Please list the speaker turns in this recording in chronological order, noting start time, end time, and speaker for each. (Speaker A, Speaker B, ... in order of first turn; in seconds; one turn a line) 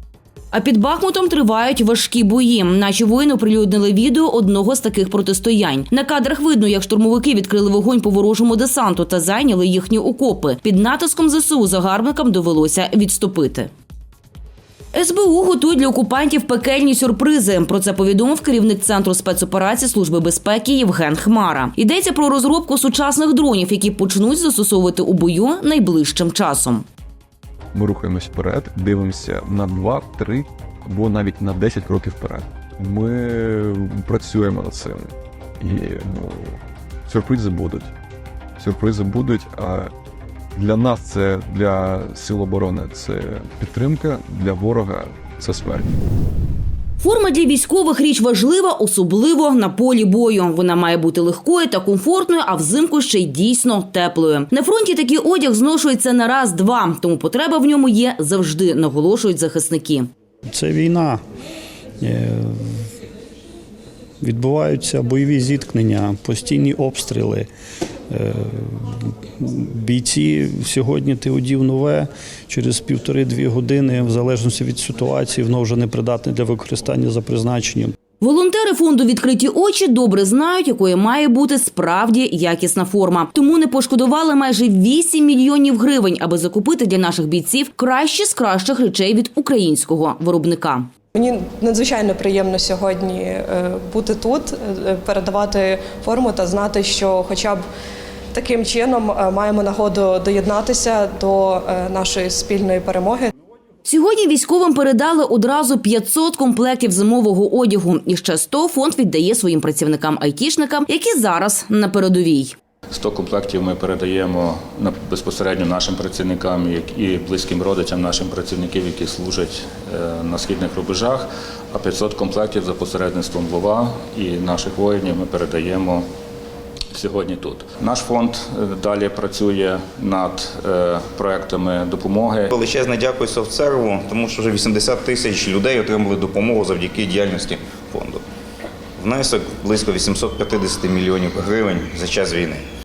Speaker A: 0.5-13.7
Speaker A: 14.9-26.8
Speaker B: 27.7-37.9
Speaker B: 38.6-39.9
Speaker B: 40.5-45.9
Speaker A: 47.0-60.1
Speaker C: 60.5-61.2
Speaker C: 62.0-62.7
Speaker C: 64.2-67.5
Speaker C: 68.1-77.9
Speaker A: 78.2-90.9
Speaker D: 91.1-97.6
Speaker D: 98.3-103.3
Speaker A: 103.9-112.6
Speaker E: 112.9-126.0
Speaker E: 126.9-132.5
Speaker F: 132.5-138.2
Speaker F: 139.0-142.6